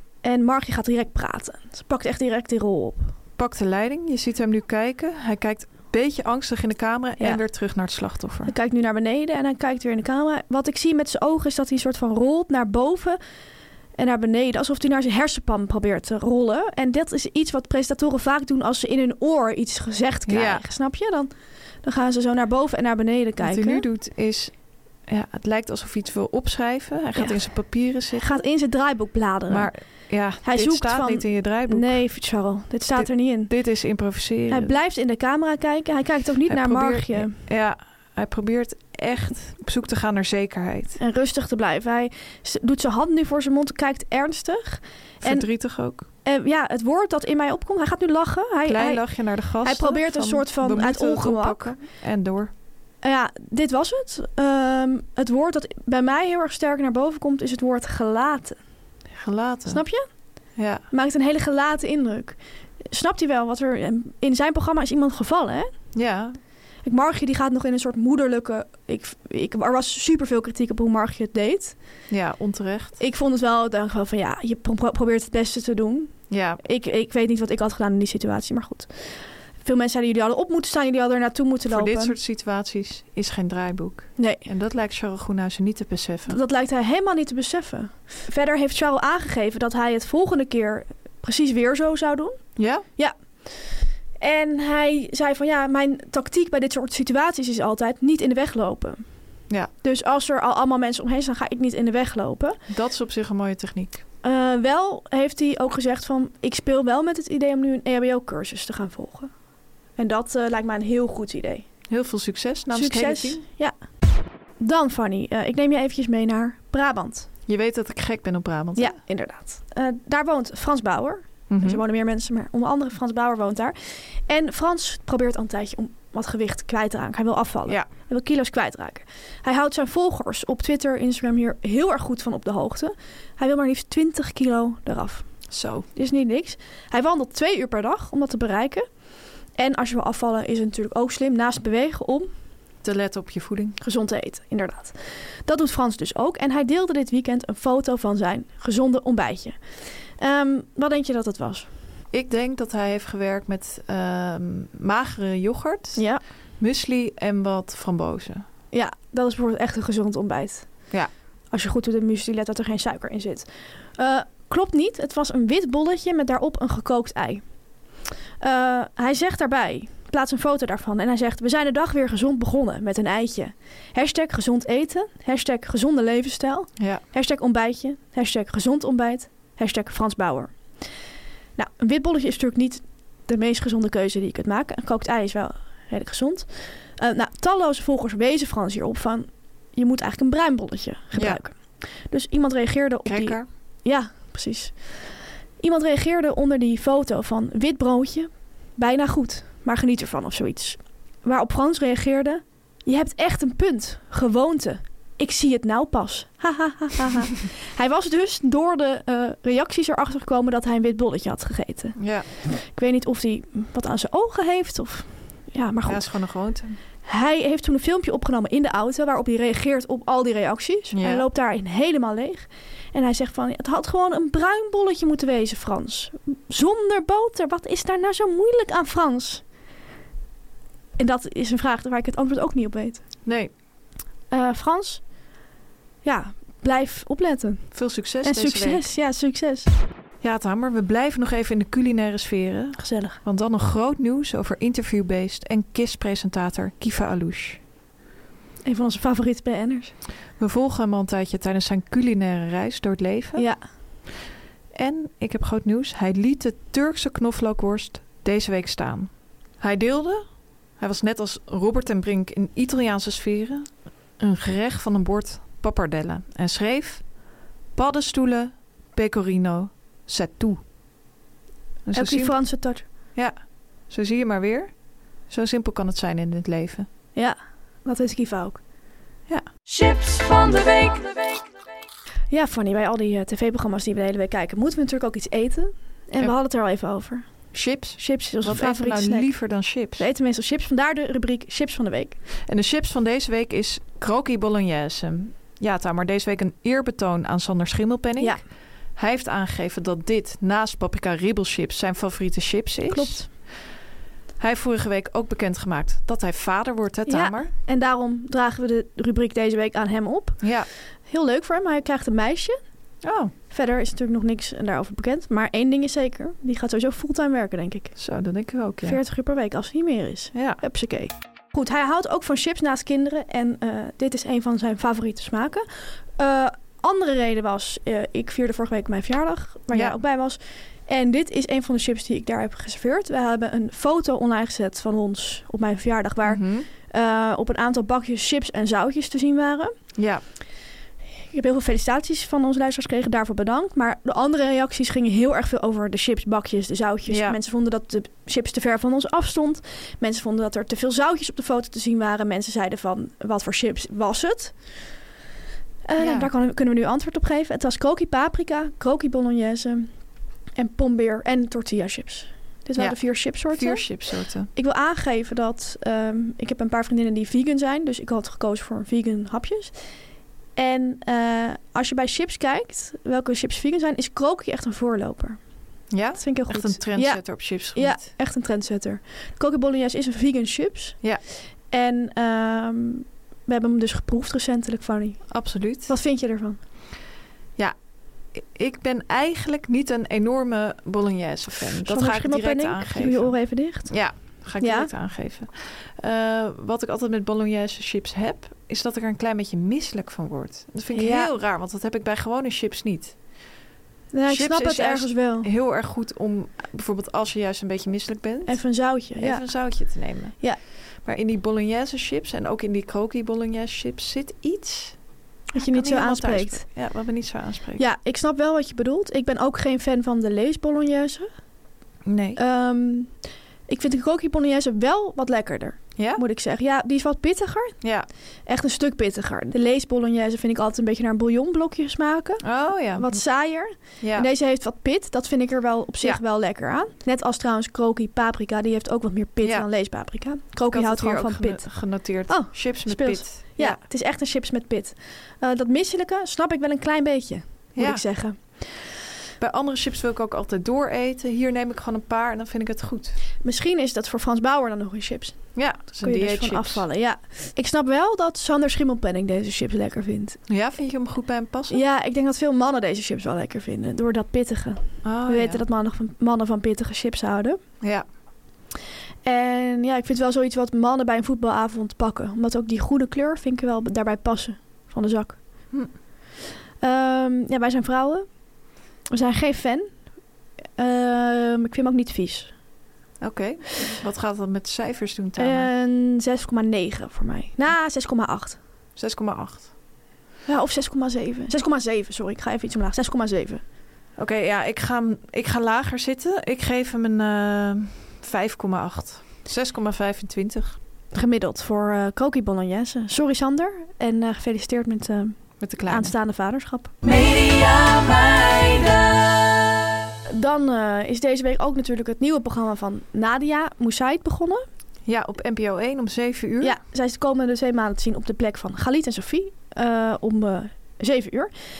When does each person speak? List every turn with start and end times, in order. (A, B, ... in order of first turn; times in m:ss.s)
0:00.2-0:03.1 A
0:03.4-0:08.5 B
0:08.4-0:13.2 A
0:14.0-0:21.3 A
0:20.3-0:20.6 B
0:21.8-0:23.8 A
0:23.4-0:24.5 B
0:25.1-0:28.4 B
0:27.1-0:27.6 A
0:28.1-0:29.7 A
0:29.5-0:32.0 B
0:30.4-0:33.5 A
0:33.0-0:34.7 B
0:34.5-0:37.4 A
0:36.5-0:41.0 B
0:41.0-0:51.7 A
0:45.2-0:46.1 B
0:48.7-0:52.5 B
0:53.0-0:58.6 A
0:59.1-0:59.8 B
0:59.7-1:00.0 A
1:00.6-1:00.8 B
1:00.9-1:02.4 A
1:02.9-1:05.7 A
1:05.9-1:06.4 B
1:06.8-1:11.8 A
1:12.1-1:13.0 B
1:13.0-1:22.1 A
1:16.3-1:16.6 B
1:21.7-1:26.4 B
1:24.2-1:24.4 A
1:26.3-1:32.4 A
1:32.6-1:32.8 B
1:33.0-1:39.0 A
1:39.8-1:42.6 A
1:42.7-1:44.0 B
1:44.2-1:49.3 A
1:50.0-1:51.6 A
1:51.9-1:53.4 B
1:52.7-1:53.7 A
1:54.6-1:57.3 A
1:57.5-1:59.0 B
1:58.7-2:15.2 A
2:01.5-2:01.8 B
2:15.5-2:15.9 B
2:15.9-2:18.8 A
2:19.6-2:22.3 A
2:22.8-2:23.8 B
2:23.8-2:31.7 A
2:32.1-2:36.1 B
2:36.0-2:36.2 A
2:36.6-2:38.4 B
2:38.7-2:40.9 A
2:41.5-2:47.4 A
2:48.4-3:00.6 A
2:56.8-2:57.0 B
3:01.6-3:36.1 A
3:11.1-3:11.4 B
3:13.0-3:13.5 B
3:32.0-3:32.3 B
3:35.8-3:36.8 B
3:37.0-3:49.4 A
3:40.9-3:41.2 B
3:51.0-3:53.0 A
3:53.2-3:53.5 B
3:54.3-3:55.1 A
3:56.0-3:59.7 A
3:57.7-3:58.8 B
4:00.2-4:07.6 B
4:02.8-4:03.2 A
4:08.6-4:09.9 A
4:10.4-4:13.5 B
4:13.4-4:13.6 A
4:14.7-4:20.2 B
4:20.8-4:27.1 B
4:27.7-4:30.6 B
4:31.8-4:32.4 B
4:31.9-4:32.8 A
4:33.9-4:34.7 B
4:35.3-4:36.9 B
4:37.1-4:38.6 A
4:39.7-4:41.2 C
4:42.3-4:47.2 A
4:47.5-4:50.0 B
4:48.0-4:52.2 A
4:52.4-5:03.4 B
4:58.2-4:58.4 A
5:02.9-5:03.3 A
5:04.4-5:07.5 B
5:07.1-5:10.5 A
5:10.4-5:10.7 B
5:11.0-5:12.6 A
5:13.0-5:13.3 B
5:13.5-5:17.9 A
5:18.0-5:19.0 B
5:18.8-5:25.6 A
5:20.3-5:20.6 B
5:26.2-5:39.7 A
5:29.7-5:30.0 B
5:36.2-5:36.7 B
5:40.0-5:40.2 B
5:41.3-5:54.8 A
5:47.1-5:47.4 B
5:55.8-5:59.9 A
5:56.0-5:56.3 B
6:00.6-6:04.0 A
6:02.8-6:04.5 B
6:04.5-6:09.7 A
6:10.6-6:15.4 A
6:15.9-6:18.0 B
6:16.1-6:21.0 A
6:21.7-6:26.6 A
6:25.3-6:25.9 B
6:28.3-6:43.2 B
6:31.8-6:34.9 A
6:40.9-6:41.3 A
6:44.1-6:45.5 A
6:44.3-6:50.4 B
6:48.5-6:49.5 A
6:51.0-6:55.0 B
6:55.5-6:56.6 A
6:55.6-6:57.8 B
6:57.8-7:01.3 A
7:02.0-7:02.4 B
7:02.4-7:03.1 A
7:03.7-7:07.8 A
7:06.0-7:06.2 B
7:07.8-7:08.1 B
7:08.4-7:28.6 A
7:12.4-7:13.2 B
7:14.0-7:14.3 B
7:19.4-7:19.7 B
7:20.7-7:23.8 B
7:27.7-7:28.0 B
7:29.4-7:33.2 B
7:33.4-7:35.5 A
7:35.5-7:36.8 B
7:36.0-7:40.4 A
7:40.5-7:41.8 B
7:41.7-7:47.6 A
7:45.0-7:45.6 B
7:49.2-7:55.4 A
7:56.8-7:58.2 A
7:59.1-7:59.9 A
8:00.8-8:02.5 A
8:03.2-8:05.7 B
8:05.4-8:08.6 A
8:09.0-8:09.7 B
8:10.5-8:13.6 A
8:14.2-8:20.8 B
8:21.1-8:26.9 A
8:25.6-8:26.1 B
8:27.0-8:29.5 C
8:30.3-8:34.6 A
8:35.0-8:36.8 B
8:36.6-8:41.5 A